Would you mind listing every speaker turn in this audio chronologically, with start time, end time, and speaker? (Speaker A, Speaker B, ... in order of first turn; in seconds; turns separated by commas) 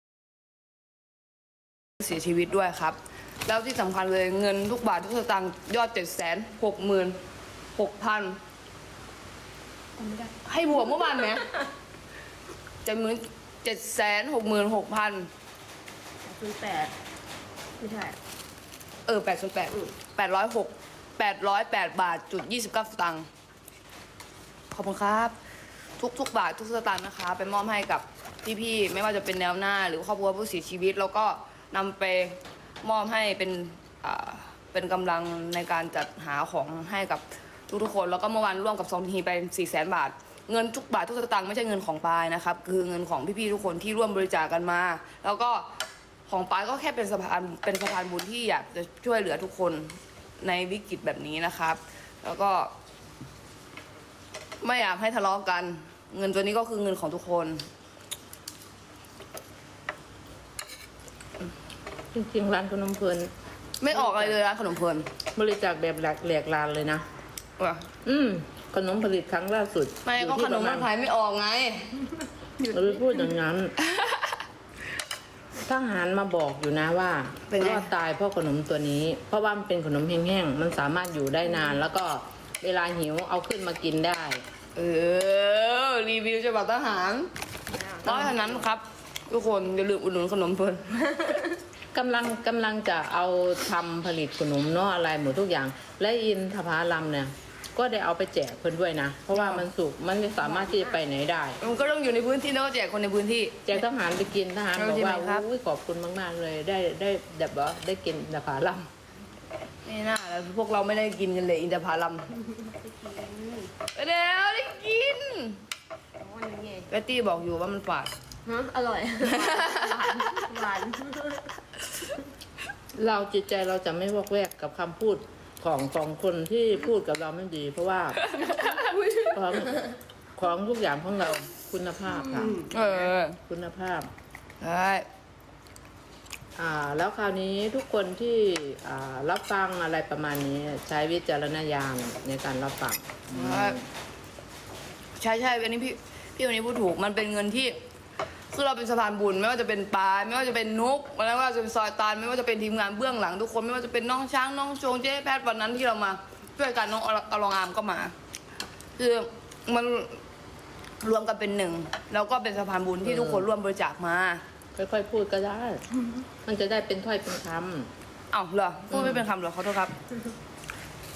Speaker A: 2.0-7.2, Speaker A: 7.7-8.4, Speaker B: 10.0-11.6, Speaker A: 10.4-11.4, Speaker A: 12.8-15.3, Speaker B: 16.2-16.9, Speaker B: 17.8-18.2, Speaker A: 19.1-23.3, Speaker A: 24.7-25.3, Speaker A: 26.0-45.7, Speaker A: 46.3-52.7, Speaker A: 54.6-57.7, Speaker C: 62.1-63.3, Speaker A: 63.8-65.1, Speaker C: 63.9-64.3, Speaker C: 65.3-67.0, Speaker A: 67.6-67.9, Speaker C: 68.0-70.9, Speaker A: 70.0-71.9, Speaker B: 72.6-73.2, Speaker C: 72.7-73.7, Speaker A: 73.8-74.2, Speaker C: 75.6-84.4, Speaker A: 77.5-77.9, Speaker A: 84.8-87.3, Speaker B: 87.7-88.6, Speaker A: 88.0-91.4, Speaker C: 91.9-101.6, Speaker A: 99.4-99.6, Speaker B: 100.5-100.9, Speaker A: 101.6-103.5, Speaker C: 103.6-108.9, Speaker A: 104.7-105.4, Speaker A: 109.8-112.2, Speaker B: 112.6-113.7, Speaker A: 114.0-115.6, Speaker B: 116.2-116.9, Speaker A: 116.9-118.1, Speaker B: 118.5-121.5, Speaker A: 119.3-120.5, Speaker C: 122.9-128.3, Speaker A: 128.2-129.1, Speaker B: 128.8-129.3, Speaker C: 129.3-134.1, Speaker B: 132.3-132.6, Speaker A: 132.7-133.4, Speaker A: 134.6-135.0, Speaker C: 136.6-143.9, Speaker A: 143.3-143.8, Speaker A: 145.2-147.8, Speaker A: 148.5-158.1, Speaker A: 159.0-160.2, Speaker A: 161.0-164.4, Speaker C: 163.0-163.4, Speaker C: 164.8-165.8, Speaker C: 166.4-167.9, Speaker A: 168.3-169.9, Speaker C: 168.9-169.2